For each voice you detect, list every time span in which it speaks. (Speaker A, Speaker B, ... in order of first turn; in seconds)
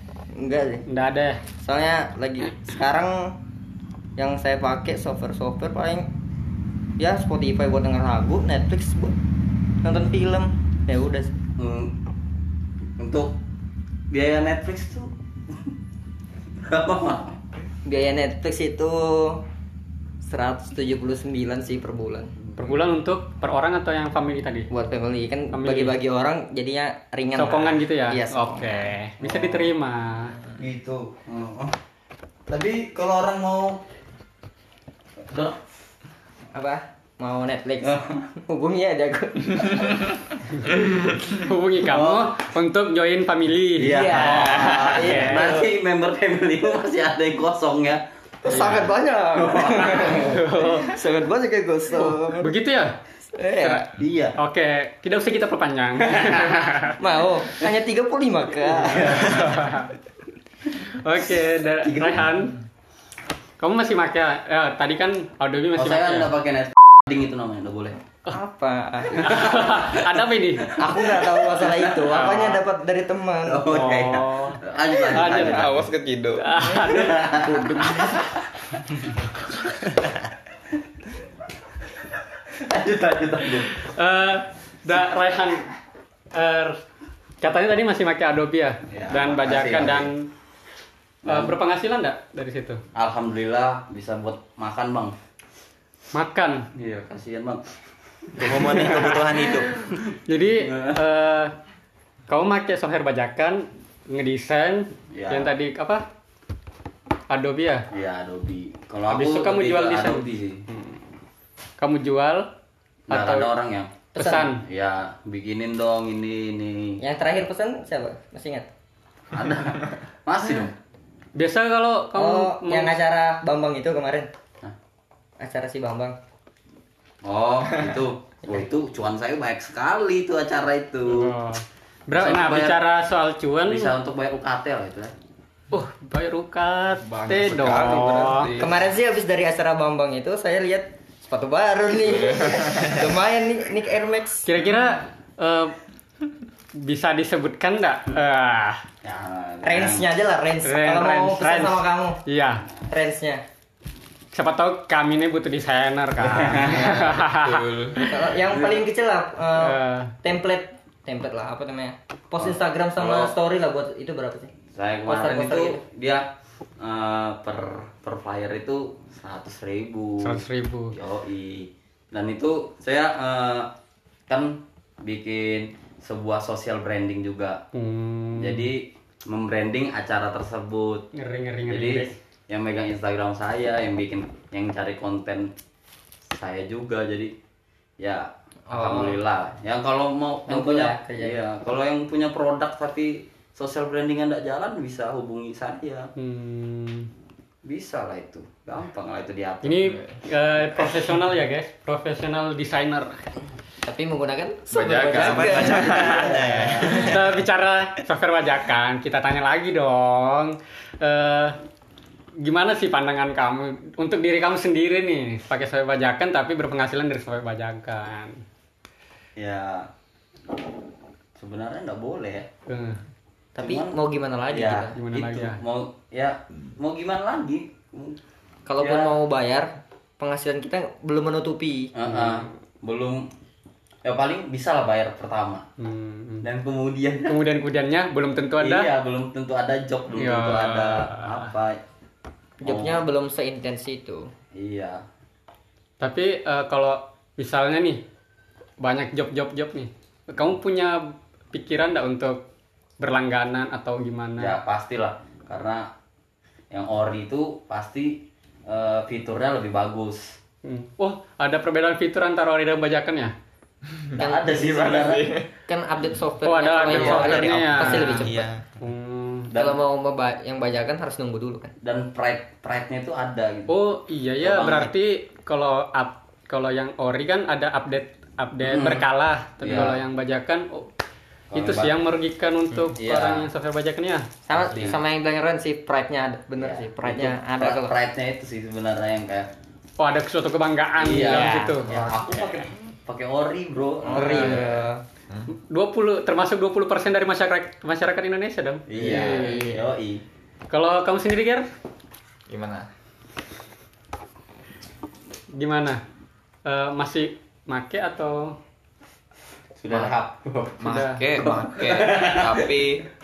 Speaker A: 0.3-0.8, 1.6-3.4, 4.2-6.1, 7.0-9.2, 9.8-11.4, 17.9-19.4, 20.2-22.3, 24.7-28.9, 36.5-40.1, 43.9-45.7, 48.5-52.5, 53.4-53.9, 57.0-59.6, 68.3-69.6, 70.8-73.7, 77.5-77.9, 114.2-114.5, 117.0-118.7, 122.2-124.3, 125.4-126.2, 138.6-144.5, 149.6-152.2, 152.9-153.4, 158.1-164.5, 165.1-165.8, 188.7-189.2, 190.5-191.4, 203.8-207.0, 223.6-225.0, 228.7-231.9, 242.6-244.3, 264.2-264.5, 265.7-268.5, 269.6-271.7, 284.5-287.9, 291.2-292.2, 294.0-295.0, 299.0-299.8
Speaker B: 0.9-1.4, 22.6-24.7, 25.5-26.0, 27.4-30.4, 41.3-45.5, 48.5-48.8, 50.0-51.0, 52.0-53.0, 54.4-57.0, 59.1-59.9, 60.7-62.6, 63.6-66.3, 69.2-70.8, 72.1-72.6, 73.7-75.7, 76.4-77.4, 83.8-85.7, 86.3-86.8, 87.4-90.3, 91.3-92.8, 96.1-96.7, 98.8-99.2, 100.1-101.5, 102.3-106.0, 107.3-107.9, 109.1-111.0, 111.8-112.5, 113.1-113.5, 114.2-114.6, 121.4-123.0, 131.1-133.9, 135.7-138.5, 144.4-145.8, 146.8-148.8, 150.6-152.7, 154.3-157.7, 159.6-160.1, 170.2-171.0, 177.7-178.7, 181.1-182.1, 196.2-197.1, 199.6-203.2, 206.9-211.6, 212.4-218.4, 222.7-223.0, 224.9-225.6, 232.1-232.5, 235.8-236.5, 237.3-238.9, 240.2-241.5, 246.0-248.0, 248.8-252.5, 253.0-254.5, 260.6-263.3, 266.4-269.5, 273.7-280.9, 281.5-284.3, 290.0-291.9, 295.5-299.7, 300.7-301.6, 305.5-306.0, 306.7-308.6, 310.9-311.2
Speaker C: 11.6-11.9, 13.0-13.3, 14.1-15.1, 16.6-17.4, 29.2-29.7, 30.6-31.8, 32.5-33.8, 35.3-35.6, 37.8-38.2, 41.9-42.3, 43.8-50.3, 54.0-54.4, 58.8-59.5, 61.8-62.3, 65.8-68.0, 69.2-70.0, 70.9-72.3, 73.5-75.9, 76.8-78.1, 82.5-83.9, 88.9-90.1, 91.2-91.5, 93.0-95.2, 96.8-97.7, 98.4-99.2, 100.6-101.0, 105.1-105.5, 107.9-110.7, 113.1-114.1, 114.6-117.0, 119.3-120.8, 127.2-131.3, 132.1-132.8, 133.7-135.1, 149.0-150.1, 156.2-157.2, 158.5-158.8, 162.4-163.3, 164.7-166.2, 166.8-170.4, 170.9-173.7, 174.3-177.6, 178.4-181.1, 181.7-185.5, 186.4-187.3, 188.0-196.1, 197.6-199.9, 206.0-206.9, 219.4-219.9, 221.4-222.5, 223.6-224.0, 224.5-228.2, 228.8-229.2, 231.9-233.3, 234.0-235.7, 236.4-237.4, 238.6-241.8, 242.6-243.0, 244.5-245.0, 254.4-255.9, 256.7-260.4, 264.2-265.3, 266.9-267.6, 269.5-269.8, 271.8-273.7, 274.4-274.9, 278.7-279.0, 279.6-280.0, 281.5-281.9, 282.9-283.5, 284.6-285.0, 286.6-289.5, 291.0-294.9, 298.9-300.2, 309.8-310.8, 311.4-312.8
Speaker D: 40.8-41.2, 75.3-76.6, 137.0-138.8, 142.4-142.8, 157.0-158.3, 204.7-207.1, 263.9-265.5, 267.0-267.9, 302.5-302.9, 310.8-313.1
Speaker E: 98.4-99.7, 205.1-206.9, 268.2-268.8